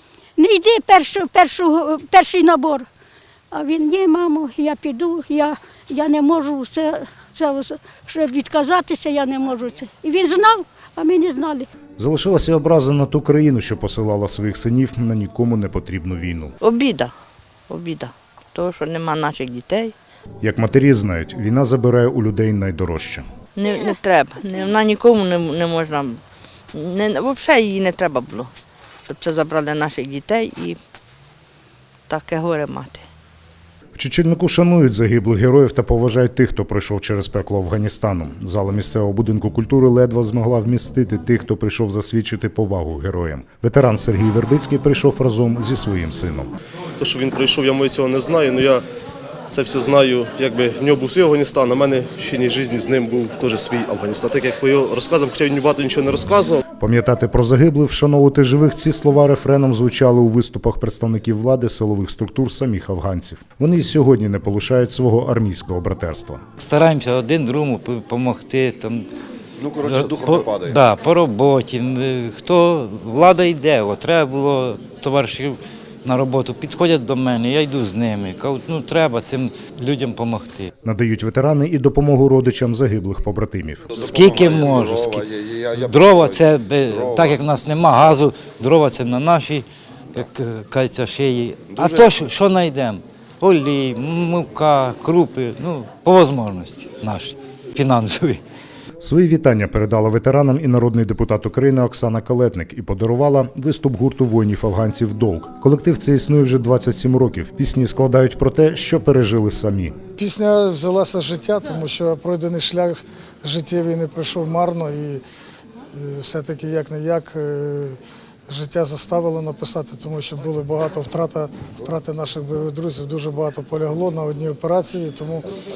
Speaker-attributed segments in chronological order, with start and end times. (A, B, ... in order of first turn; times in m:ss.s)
0:00.4-0:02.8 A
0:03.5-0:11.7 A
0:12.0-0:16.6 B
0:16.6-0:17.1 C
0:17.7-0:19.9 C
0:20.4-0:23.2 B
0:23.6-0:26.2 C
0:26.7-0:28.5 C
0:29.1-0:30.8 C
0:32.1-0:33.0 C
0:34.0-0:46.5 B
0:47.0-0:48.8 D
0:49.5-0:56.6 D
0:56.8-1:06.4 B
1:06.6-1:09.0 E
1:09.6-1:10.8 F
1:09.8-1:20.7 E
1:20.8-1:23.9 B
1:23.9-1:27.6 F
1:23.9-1:38.4 E
1:31.8-1:32.0 F
1:39.0-1:50.0 B
1:50.2-1:55.2 G
1:55.9-2:05.5 G